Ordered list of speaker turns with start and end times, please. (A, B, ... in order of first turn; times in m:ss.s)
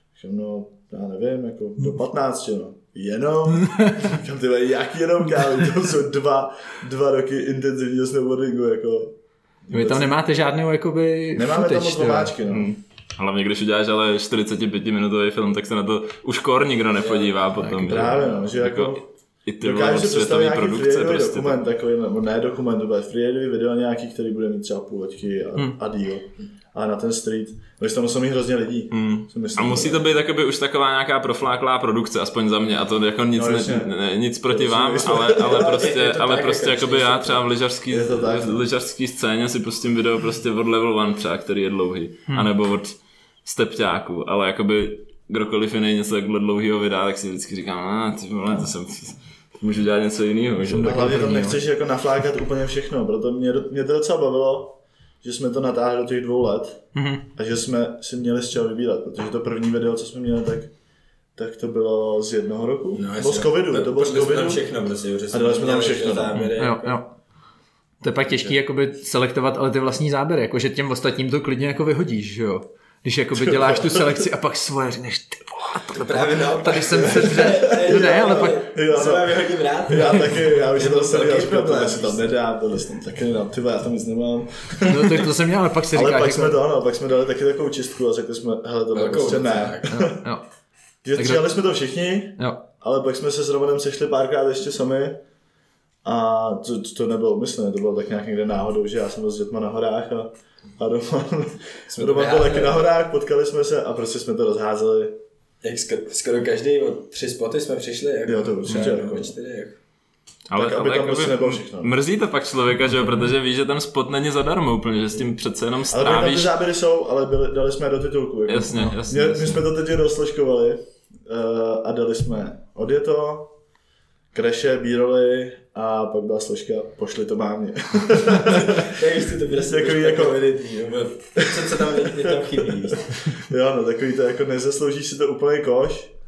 0:00.2-0:10.1 A
0:03.6-0:04.0 B
0:09.7-0:12.4 B
0:11.4-0:12.7 A
0:12.5-0:21.6 C
0:17.0-0:17.4 D
0:17.6-0:17.9 B
0:17.8-0:19.1 A
0:19.6-0:30.1 A
0:28.9-0:51.0 C
0:33.3-0:33.9 A
0:34.5-0:35.9 A
0:35.4-0:37.4 D
0:37.9-0:38.6 A
0:50.7-0:51.6 B
0:50.8-1:00.7 A
0:57.0-0:57.2 B
1:01.4-1:04.6 A
1:02.9-1:07.0 D
1:05.3-1:06.4 A
1:06.6-1:07.1 B
1:08.0-1:18.5 B
1:13.5-1:14.0 A
1:15.9-1:22.4 D
1:17.2-1:25.4 A
1:24.9-1:26.6 B
1:25.9-1:30.2 A
1:28.9-1:29.9 D
1:29.9-1:30.5 B
1:31.0-1:35.2 A
1:31.2-1:31.5 B
1:32.4-1:32.6 B
1:36.0-1:45.2 A
1:41.9-1:42.9 D
1:45.6-1:49.8 D
1:48.3-1:49.4 A
1:50.5-1:56.5 C
1:50.6-1:52.0 A
1:55.9-2:03.5 A
1:58.5-1:59.7 C
2:04.3-2:09.0 A
2:08.6-2:13.3 D
2:09.5-2:10.7 A
2:11.4-2:16.1 A